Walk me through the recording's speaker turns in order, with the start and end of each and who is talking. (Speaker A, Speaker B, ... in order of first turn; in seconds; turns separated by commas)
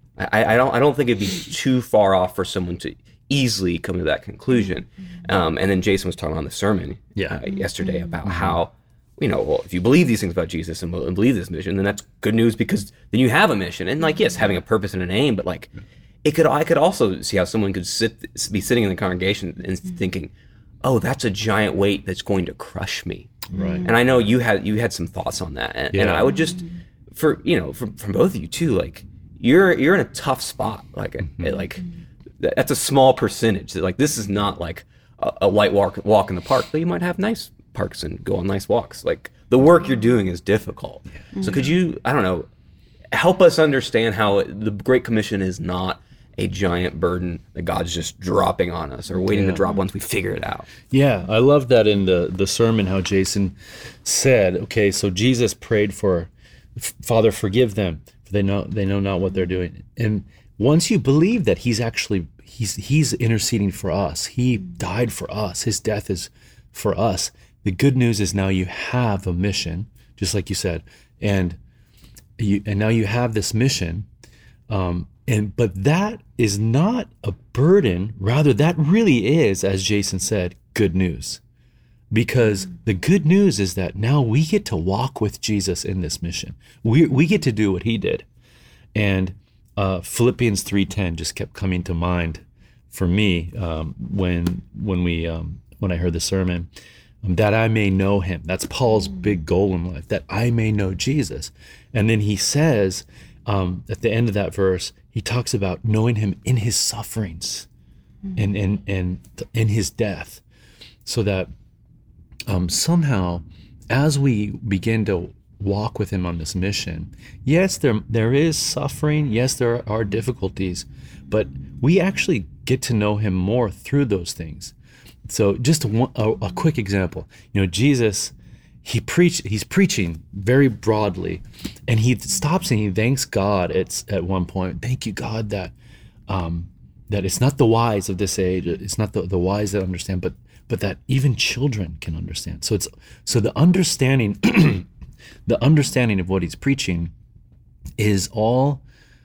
Speaker A: 0.2-15.7, Speaker B: 8.2-8.6, Speaker A: 16.2-20.3, Speaker A: 20.8-31.9, Speaker B: 23.5-23.9, Speaker B: 25.9-26.3, Speaker A: 32.4-42.5, Speaker A: 43.1-50.7, Speaker B: 49.3-49.6, Speaker B: 50.9-71.6, Speaker B: 72.4-74.1, Speaker B: 74.7-81.4, Speaker B: 82.1-88.3, Speaker B: 89.0-96.7, Speaker B: 97.2-107.7, Speaker B: 108.4-110.4, Speaker B: 111.0-111.5, Speaker B: 112.5-124.8, Speaker B: 125.3-128.3, Speaker B: 128.8-135.7, Speaker B: 136.3-144.9, Speaker B: 145.5-147.1, Speaker B: 148.0-148.8